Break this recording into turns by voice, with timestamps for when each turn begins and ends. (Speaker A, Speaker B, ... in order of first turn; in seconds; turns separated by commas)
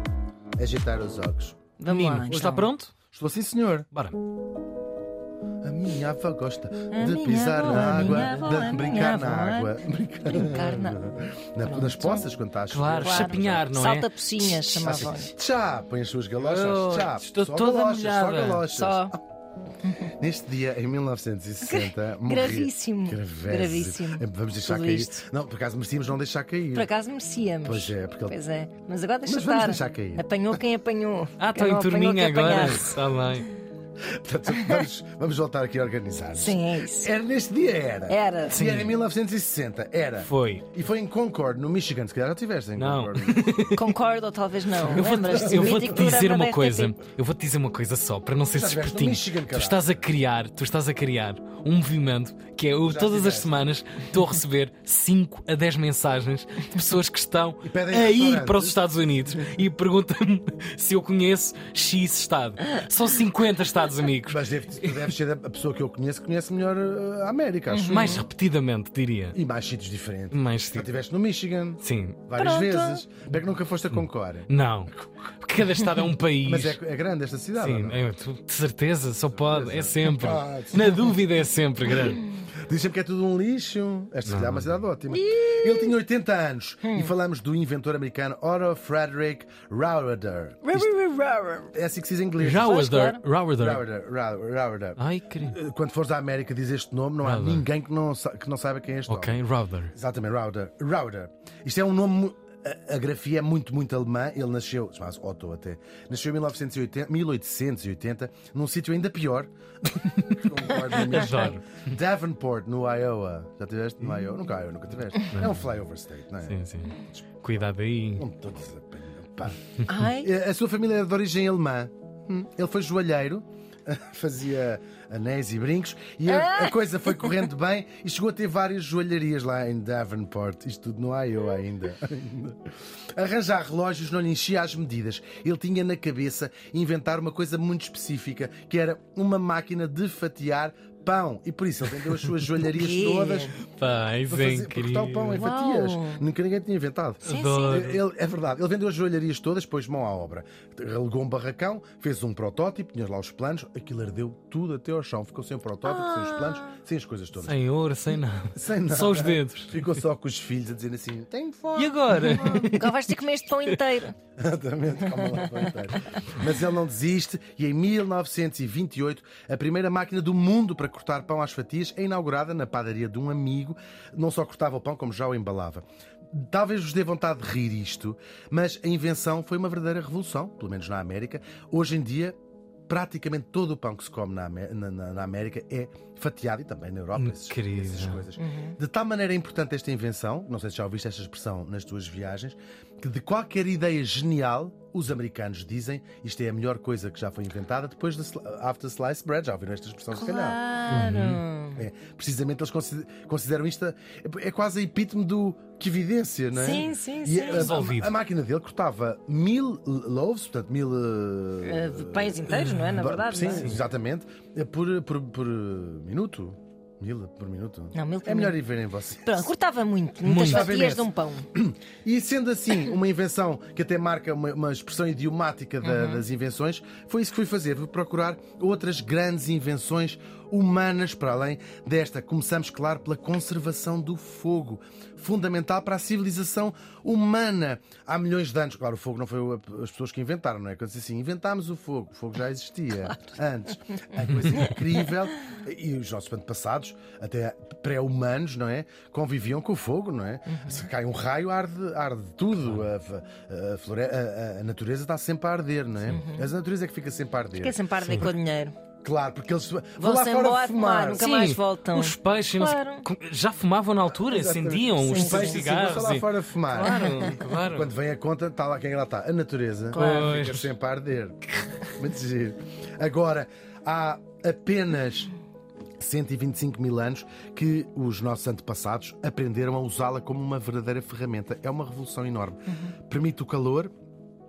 Speaker A: 0.6-1.6, Speaker B: 1.8-2.7, Speaker C: 1.9-2.9, Speaker A: 3.1-3.9, Speaker A: 5.6-13.5, Speaker B: 6.9-12.3, Speaker C: 7.9-8.3, Speaker C: 12.7-15.1, Speaker B: 13.0-15.3, Speaker A: 14.8-19.2, Speaker C: 16.4-18.7, Speaker B: 18.7-19.1, Speaker B: 19.9-20.1, Speaker A: 20.0-26.9, Speaker B: 21.7-25.2, Speaker B: 26.7-33.0, Speaker A: 27.6-28.4, Speaker A: 29.3-30.6, Speaker C: 31.4-33.5, Speaker A: 34.1-43.5, Speaker B: 36.4-37.1, Speaker B: 38.1-38.6, Speaker C: 38.5-39.0, Speaker C: 40.2-40.6, Speaker C: 42.8-44.0, Speaker B: 43.7-47.0, Speaker C: 44.8-65.1, Speaker A: 45.3-46.1, Speaker A: 48.5-50.1, Speaker A: 52.8-53.7, Speaker A: 57.6-58.8, Speaker A: 64.2-68.3, Speaker B: 67.7-68.2, Speaker C: 67.9-69.4, Speaker A: 69.3-75.0, Speaker C: 70.3-71.0, Speaker C: 71.8-72.3, Speaker B: 72.4-73.0, Speaker C: 73.9-76.8, Speaker A: 76.4-78.1, Speaker C: 77.6-82.2, Speaker A: 79.3-81.2, Speaker A: 82.4-90.9, Speaker C: 84.3-84.8, Speaker B: 85.1-86.0, Speaker B: 86.8-87.1, Speaker B: 90.6-91.7, Speaker A: 91.7-92.9, Speaker C: 92.4-93.8, Speaker B: 92.6-93.2, Speaker A: 93.6-99.4, Speaker C: 95.0-95.6, Speaker C: 97.2-97.7, Speaker C: 99.1-99.9, Speaker A: 99.9-117.2, Speaker C: 110.3-111.8, Speaker C: 115.3-115.6, Speaker C: 116.4-118.2, Speaker A: 118.2-143.6, Speaker B: 119.9-120.3, Speaker B: 126.3-127.3, Speaker B: 142.7-143.6, Speaker C: 143.7-145.4, Speaker A: 144.3-157.6, Speaker B: 145.3-146.3, Speaker B: 147.2-147.9, Speaker C: 147.2-148.0, Speaker B: 155.8-156.8, Speaker C: 157.4-159.9, Speaker A: 158.6-162.4, Speaker C: 161.8-163.0, Speaker B: 162.1-164.2, Speaker A: 164.4-182.4, Speaker A: 182.9-200.6, Speaker C: 187.2-188.2, Speaker B: 188.4-188.8, Speaker B: 200.1-201.8, Speaker C: 200.9-201.4, Speaker A: 201.8-219.5, Speaker B: 206.5-207.8, Speaker C: 207.5-208.2, Speaker B: 211.6-213.8, Speaker C: 213.5-213.8, Speaker B: 217.9-218.6, Speaker B: 219.2-221.5, Speaker C: 220.2-220.7, Speaker A: 220.3-258.3, Speaker B: 225.8-226.2, Speaker B: 250.5-250.9, Speaker C: 252.6-252.9, Speaker B: 256.1-256.5, Speaker B: 257.6-258.8, Speaker C: 258.0-258.3, Speaker A: 259.0-261.3, Speaker B: 260.0-263.1, Speaker C: 261.1-267.9, Speaker A: 264.2-271.4, Speaker B: 265.0-265.6, Speaker B: 266.8-267.4, Speaker C: 269.9-270.7, Speaker B: 269.9-270.4, Speaker A: 272.0-275.3, Speaker A: 276.0-283.9, Speaker B: 282.7-282.9